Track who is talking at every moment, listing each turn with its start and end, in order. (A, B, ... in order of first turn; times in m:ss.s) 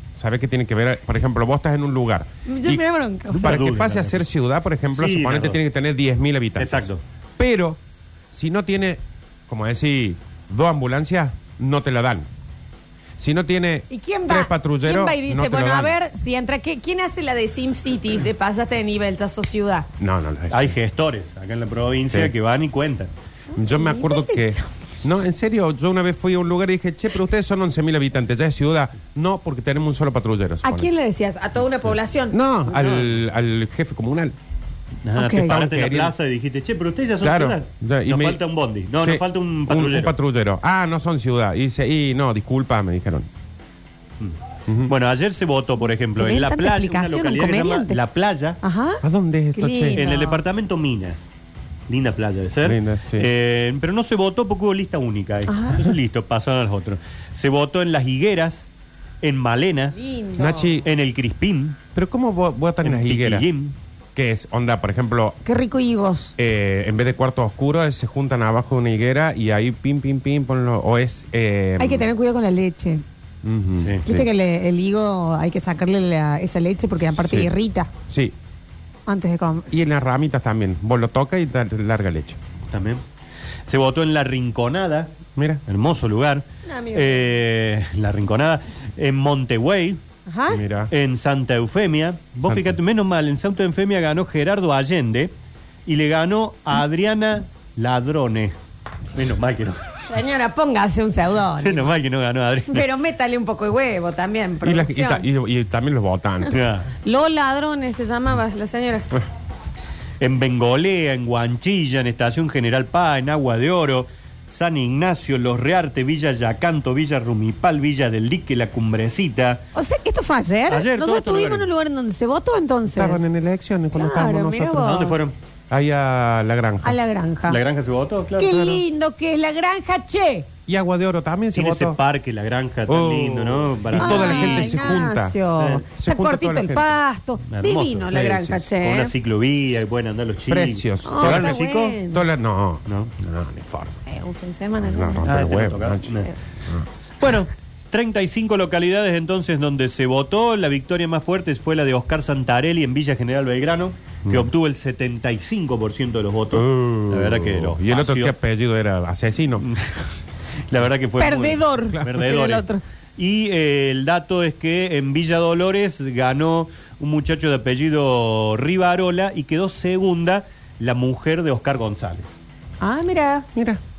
0:00.2-0:02.8 A
0:02.5-0:03.6 B
0:03.3-0:04.2 C
0:03.4-0:07.8 A
0:04.9-0:05.6 C
0:06.6-0:07.0 C
0:08.3-0:12.3 A
0:13.2-0:16.0 A
0:13.9-0:19.9 B
0:20.0-0:20.7 A
0:20.5-0:23.1 C
0:23.5-0:24.7 B
0:23.6-0:30.9 A
0:30.6-0:32.4 B
0:32.3-0:34.3 A
0:32.7-0:33.2 C
0:35.0-0:40.1 C
0:35.2-0:35.5 B
0:35.4-0:36.1 A
0:37.2-0:38.4 A
0:39.0-0:43.3 A
0:44.7-0:44.9 A
0:44.9-0:48.6 C
0:46.2-0:48.0 B
0:48.6-0:49.0 B
0:49.0-0:50.0 A
0:49.5-0:50.4 B
0:49.9-0:51.2 C
0:51.9-0:58.6 C
0:52.6-0:53.3 A
0:55.5-0:55.8 B
0:59.2-1:00.0 C
0:59.9-1:00.8 B
1:00.4-1:00.9 A
1:00.8-1:01.8 C
1:01.9-1:03.5 A
1:02.8-1:03.7 C
1:04.1-1:05.4 A
1:05.4-1:06.4 B
1:06.4-1:12.1 A
1:11.8-1:13.0 B
1:13.4-1:14.3 A
1:13.8-1:14.0 C
1:14.0-1:17.9 B
1:17.1-1:17.5 A
1:18.1-1:18.3 A
1:19.1-1:19.7 B
1:19.7-1:22.4 A
1:22.7-1:23.0 C
1:23.7-1:25.1 C
1:25.4-1:25.6 A
1:25.7-1:30.0 C
1:26.6-1:27.3 B
1:30.3-1:30.6 B
1:30.5-1:30.9 A
1:30.9-1:35.3 C
1:32.4-1:32.8 A
1:35.8-1:38.5 C
1:39.1-1:39.8 C
1:40.1-1:41.9 B
1:41.6-1:42.9 C
1:42.7-1:45.2 B
1:44.6-1:46.6 A
1:46.5-1:46.9 C
1:47.0-1:49.2 B
1:50.2-1:59.6 C
1:59.7-2:03.2 B
2:00.7-2:01.7 C
2:02.9-2:05.0 A
2:03.9-2:05.2 B
2:04.8-2:05.3 C
2:05.7-2:06.9 A
2:06.8-2:07.6 B
2:07.5-2:08.8 C
2:08.4-2:10.5 B
2:10.7-2:12.0 A
2:11.6-2:15.0 C
2:12.9-2:17.0 A
2:14.0-2:19.1 B
2:15.6-2:15.8 C
2:17.5-2:22.0 C
2:20.5-2:21.6 A
2:21.0-2:22.2 B
2:22.1-2:24.0 A
2:24.0-2:25.3 B
2:24.8-2:26.8 A
2:25.2-2:26.3 C
2:27.2-2:38.3 C
2:36.5-2:39.6 A
2:39.6-2:40.1 C
2:40.7-2:42.6 C
2:41.2-2:42.8 B
2:41.9-2:42.2 A
2:43.2-2:52.4 C
2:52.8-2:53.4 B
2:53.5-2:53.8 A